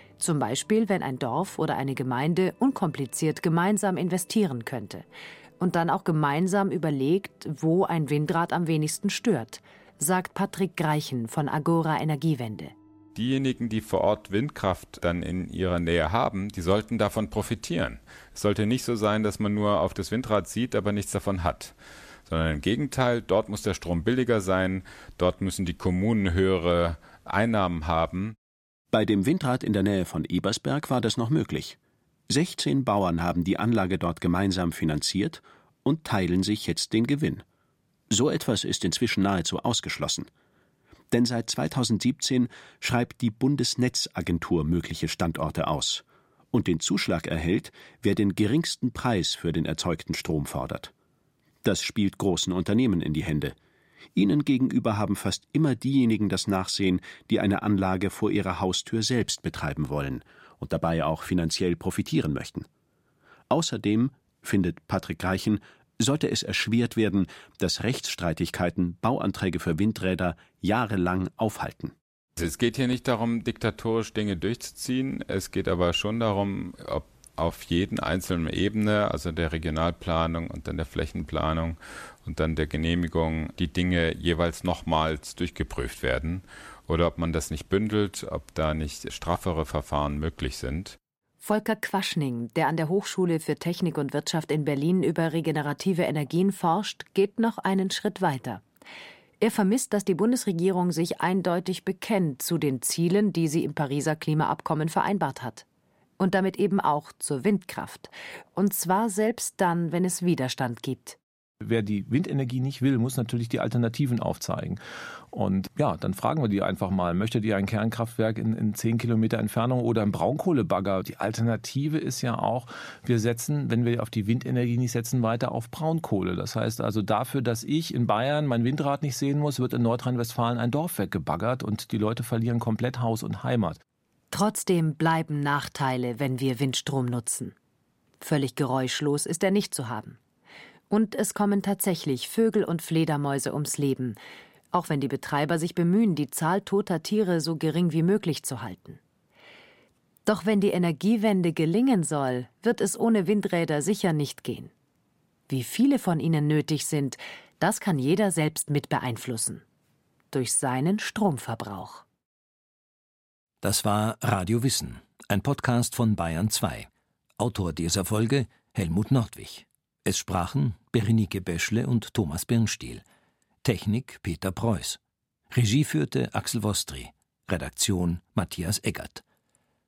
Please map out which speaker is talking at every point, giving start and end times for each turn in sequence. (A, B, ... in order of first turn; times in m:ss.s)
0:00.2-0:05.0 A
0:05.6-0:12.7 A
0:13.1-0:21.7 B
0:22.3-0:28.3 B
0:28.9-0:31.8 C
0:32.3-0:37.4 C
0:38.1-0:40.3 C
0:41.1-0:50.9 C
0:51.6-0:53.6 C
0:54.1-1:02.7 C
1:03.5-1:11.9 C
1:12.4-1:31.0 B
1:31.4-1:38.6 A
1:39.4-1:45.6 A
1:46.2-1:51.2 A
1:51.6-1:54.8 D
1:55.3-2:13.8 D
2:14.3-2:17.5 A
2:18.2-2:20.2 A
2:20.9-2:24.2 A
2:24.7-2:29.0 A
2:30.2-2:34.7 A
2:35.5-2:39.6 A
2:40.3-2:42.0 A
2:43.6-2:53.0 E
2:53.6-2:55.0 E
2:55.5-2:59.2 E